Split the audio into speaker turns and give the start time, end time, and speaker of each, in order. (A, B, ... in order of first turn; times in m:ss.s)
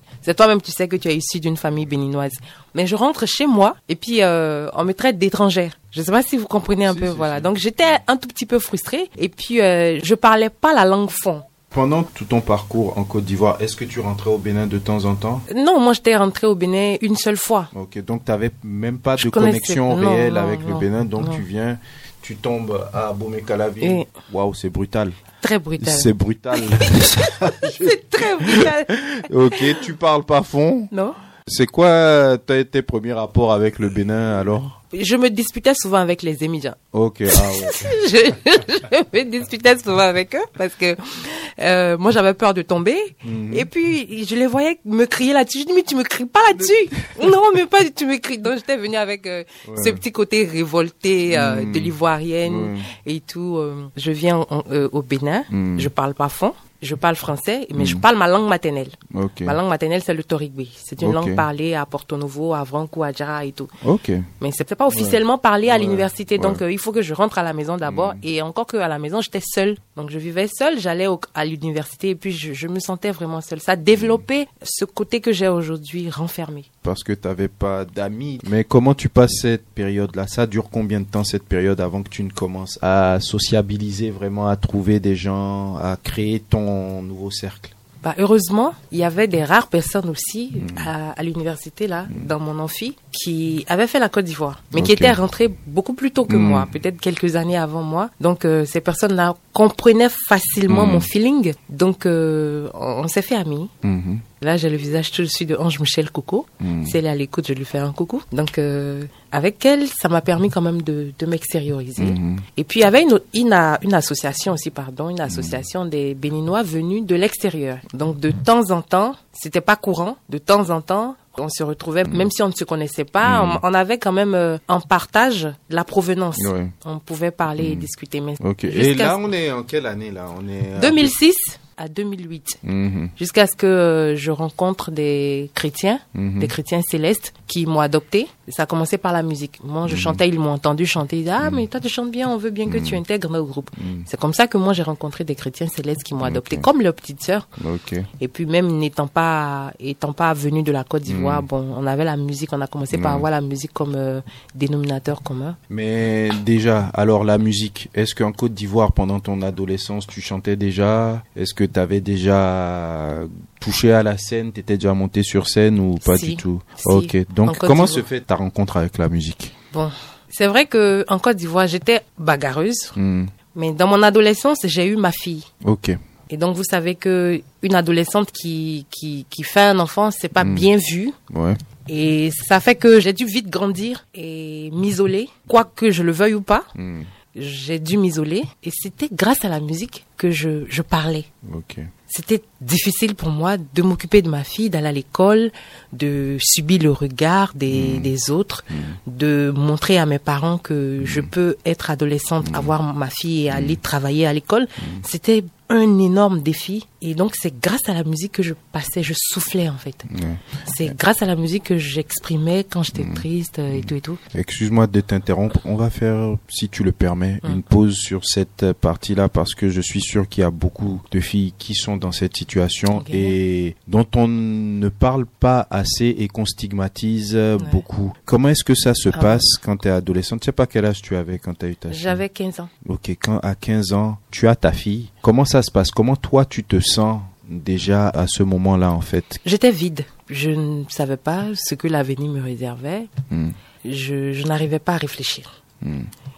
0:00.2-0:11.4 A
0:06.9-0:07.5 B
0:11.7-0:15.4 B
0:15.5-0:17.7 A
0:17.7-0:25.2 B
0:19.2-0:21.4 A
0:23.8-0:24.1 A
0:25.4-0:26.1 A
0:25.8-0:30.9 B
0:26.6-0:27.0 A
0:27.6-0:29.2 A
0:30.9-0:31.2 A
0:31.5-0:34.8 B
0:34.9-0:36.8 A
0:36.9-0:37.9 B
0:37.3-1:03.7 A
0:43.2-0:43.7 B
0:49.6-0:50.0 B
0:51.3-0:52.9 B
0:55.5-0:55.9 B
0:57.8-0:58.0 B
0:59.1-0:59.6 B
1:01.0-1:01.4 B
1:03.8-1:04.3 B
1:04.4-1:16.7 A
1:04.9-1:06.6 B
1:07.8-1:08.2 B
1:13.9-1:14.2 B
1:16.8-1:27.7 B
1:28.0-1:43.7 A
1:30.6-1:30.9 B
1:34.7-1:35.2 B
1:36.3-1:36.7 B
1:40.7-1:41.1 B
1:43.8-1:44.2 B
1:44.4-2:09.2 A
1:46.6-1:46.9 B
1:52.0-1:52.4 B
1:55.3-1:55.6 B
2:03.2-2:03.6 B
2:06.4-2:06.7 B
2:07.6-2:07.9 B
2:08.4-2:11.1 B
2:10.8-2:12.6 A
2:12.6-2:13.1 B
2:13.2-2:27.5 A
2:16.1-2:16.5 B
2:19.8-2:20.2 B
2:22.7-2:23.0 B
2:23.8-2:24.1 B
2:26.2-2:26.7 B
2:27.6-2:28.1 B
2:28.2-2:35.6 A
2:31.0-2:31.5 B
2:32.9-2:33.2 B
2:35.7-2:49.5 B
2:46.0-2:48.0 A
2:49.7-2:52.9 A
2:53.0-2:53.3 B
2:53.5-2:55.5 A
2:55.6-2:56.0 B
2:56.3-3:01.2 A
3:00.4-3:00.7 B
3:01.3-3:01.6 B
3:01.9-3:06.7 A
3:06.8-3:07.1 B
3:07.3-3:11.3 A
3:11.4-3:11.9 B
3:12.1-3:30.1 A
3:17.7-3:18.1 B
3:18.7-3:19.0 B
3:21.0-3:21.3 B
3:22.4-3:22.7 B
3:23.5-3:23.8 B
3:30.1-3:31.0 B
3:30.7-3:34.2 A
3:32.9-3:52.2 B
3:43.0-3:43.3 A
3:49.1-3:49.5 A
3:51.9-3:52.7 A
3:52.8-3:59.4 B
3:59.4-4:03.1 A
4:03.3-4:03.6 B
4:03.8-4:05.5 A
4:05.8-4:06.1 B